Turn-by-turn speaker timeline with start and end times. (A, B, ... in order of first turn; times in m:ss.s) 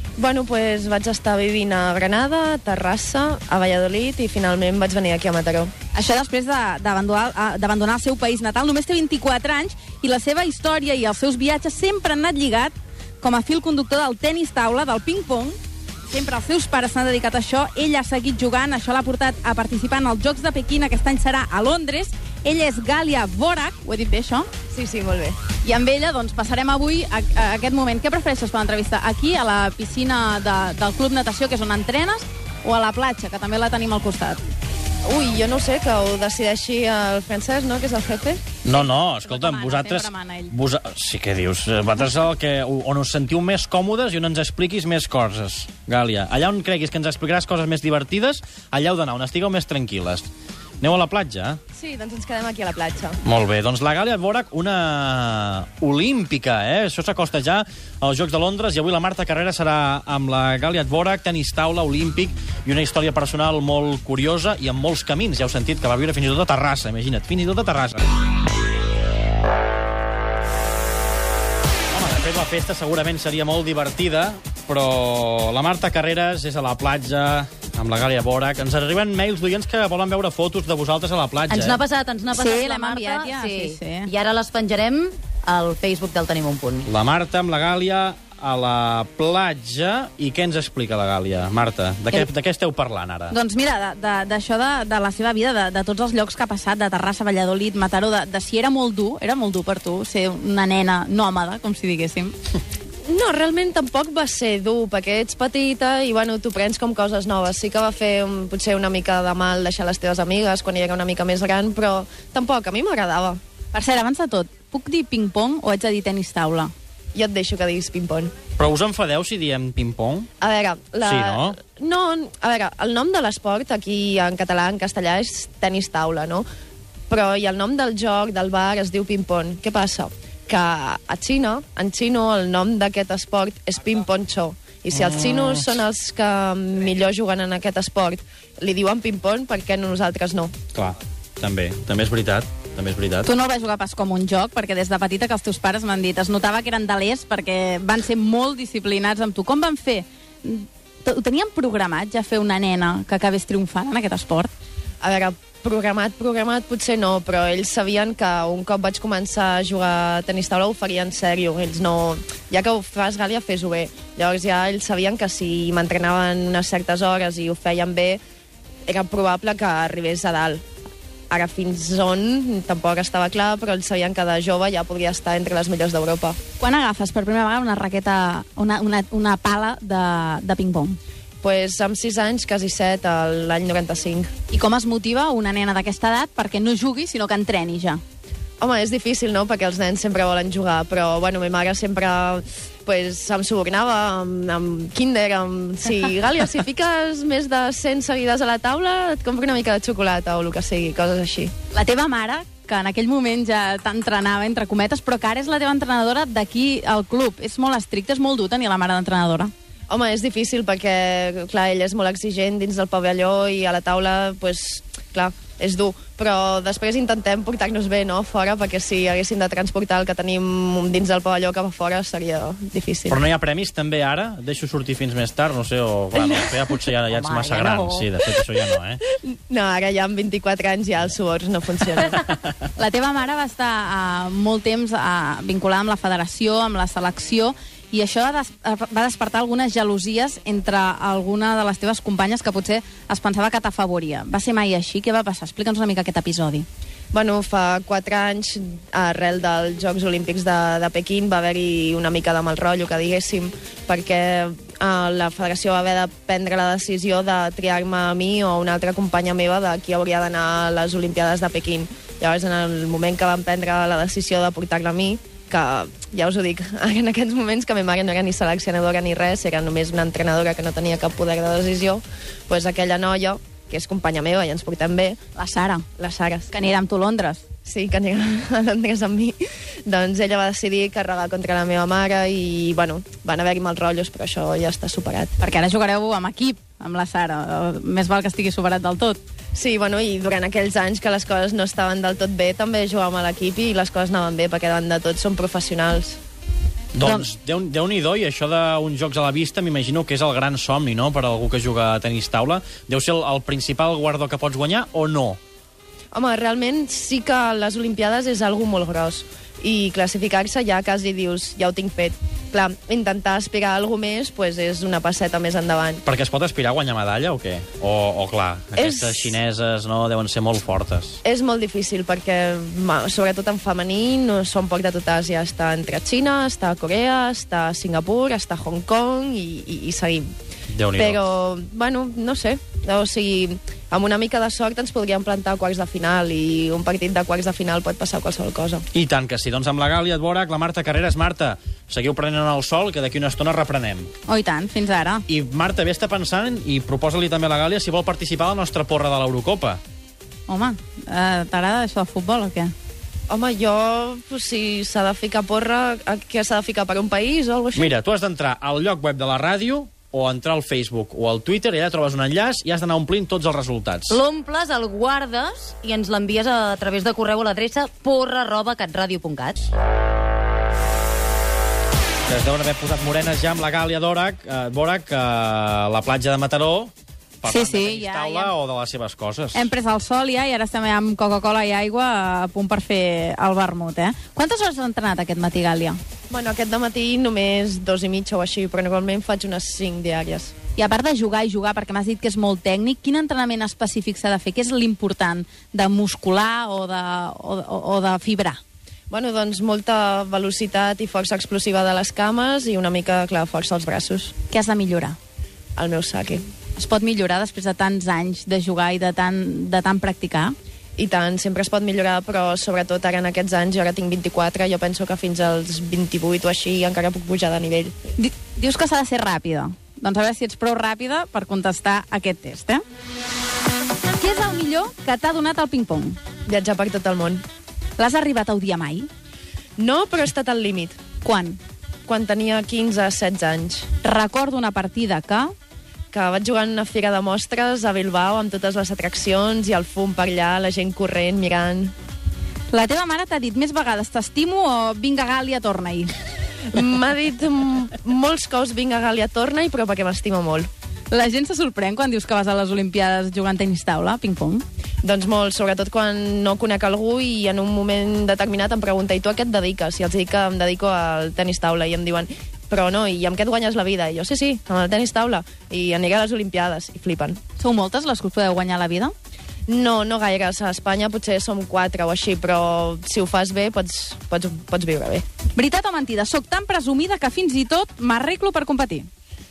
0:00.2-0:05.7 A
0:05.9-0:24.5 B
0:24.7-0:25.4 A
0:25.6-0:34.4 B
0:35.0-0:38.4 A
0:38.6-0:50.3 C
0:38.7-0:40.5 B
0:50.8-0:51.6 C
0:51.7-0:53.2 A
0:53.2-1:08.0 C
1:11.9-1:21.8 C
1:21.5-1:26.9 D
1:22.3-1:24.1 B
1:26.8-1:33.3 C
1:33.3-1:42.3 B
1:43.0-1:53.4 A
1:53.7-1:56.7 B
1:57.1-1:58.3 A
1:58.6-2:00.3 C
2:00.4-2:06.4 A
2:01.0-2:01.6 C
2:07.1-2:20.5 A
2:14.9-2:15.8 C
2:20.7-2:23.3 C
2:23.2-2:34.5 B
2:35.0-2:48.2 A
2:48.8-2:50.6 A
2:51.3-2:56.4 A
2:56.6-3:01.0 B
3:01.4-3:04.3 A
3:04.5-3:08.0 B
3:08.6-3:21.5 A
3:21.7-3:29.5 B
3:29.9-3:43.2 A
3:43.1-3:49.0 C
3:46.4-3:46.8 A
3:47.1-3:48.1 D
3:49.2-3:52.3 A
3:52.8-4:06.6 B
4:07.1-4:35.2 A
4:35.3-4:35.8 B
4:36.0-4:36.5 A
4:36.5-4:37.4 B
4:37.6-4:45.3 A
4:45.4-4:49.2 B
4:49.5-4:56.2 A
4:56.9-5:05.4 C
4:57.0-4:57.3 B
5:06.1-5:16.0 A
5:16.0-5:21.2 C
5:18.8-5:19.4 A
5:21.2-5:30.3 A
5:30.7-5:31.2 C
5:30.9-5:38.8 A
5:38.9-5:44.1 C
5:44.3-5:45.2 B
5:45.3-5:49.8 C
5:50.5-5:52.7 B
5:53.3-5:57.9 A
5:57.7-6:04.2 C
6:04.1-6:09.7 D
6:12.3-6:19.7 C
6:17.5-6:18.5 B
6:19.5-6:26.0 B
6:26.3-6:30.5 A
6:30.8-6:38.6 B
6:39.1-6:44.3 A
6:44.5-6:45.2 B
6:45.8-6:46.4 A
6:46.8-6:50.5 B
6:51.0-6:58.0 A
6:58.2-7:02.8 B
7:04.1-7:06.2 B
7:06.5-7:07.4 A
7:08.0-7:09.1 B
7:09.8-7:11.0 A
7:11.2-7:11.6 B
7:12.1-7:13.9 A
7:14.0-7:15.5 B
7:16.1-7:21.9 A
7:22.7-7:26.1 B
7:26.7-7:30.7 A
7:31.1-7:34.6 B
7:35.0-7:47.4 A
7:47.6-7:49.1 B
7:49.7-7:55.2 A
7:55.6-7:59.1 B